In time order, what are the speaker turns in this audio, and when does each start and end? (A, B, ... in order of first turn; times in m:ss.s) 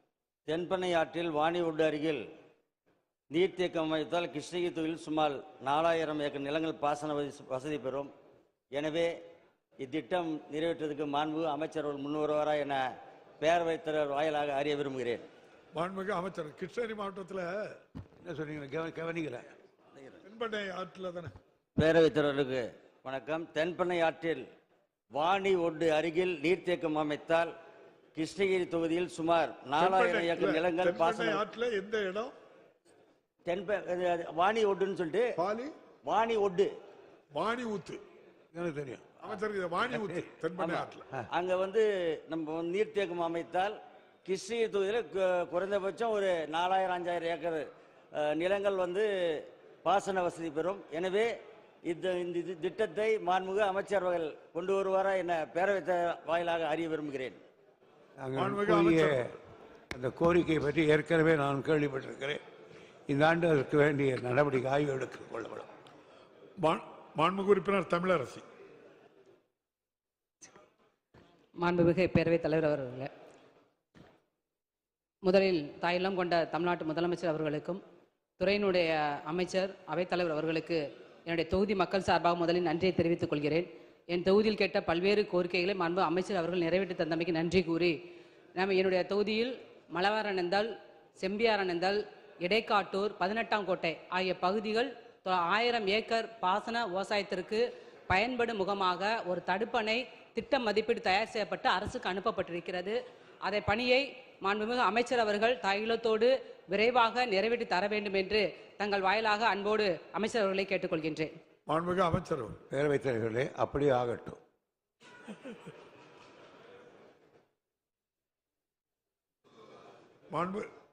0:00.5-0:02.2 A
0:03.3-0:08.1 A
0:08.8-0:09.1 A
0:09.8-0:12.8 A
0:13.4-0:15.3 A
0:15.7-0:17.5 B
0:18.2-0:19.5 C
0:20.2-0:21.3 B
0:21.8-0:24.4 A
0:25.2-0:27.5 A
0:28.2-0:31.4 A
0:29.8-0:32.3 B
0:33.5-0:35.3 A
0:35.4-0:35.7 B
0:36.1-0:36.7 A
0:37.3-0:38.0 B
0:38.5-0:39.1 C
0:39.2-0:41.1 B
0:40.6-0:51.3 A
0:51.9-0:57.4 A
0:58.2-0:59.3 C
0:58.4-0:59.2 B
0:59.9-1:02.4 C
1:03.1-1:05.7 C
1:06.6-1:08.4 B
1:11.6-1:13.1 D
1:15.2-1:17.8 D
1:18.4-1:27.9 D
1:28.6-1:51.3 D
1:51.7-1:52.6 B
1:52.7-1:54.4 C
2:00.3-2:00.7 B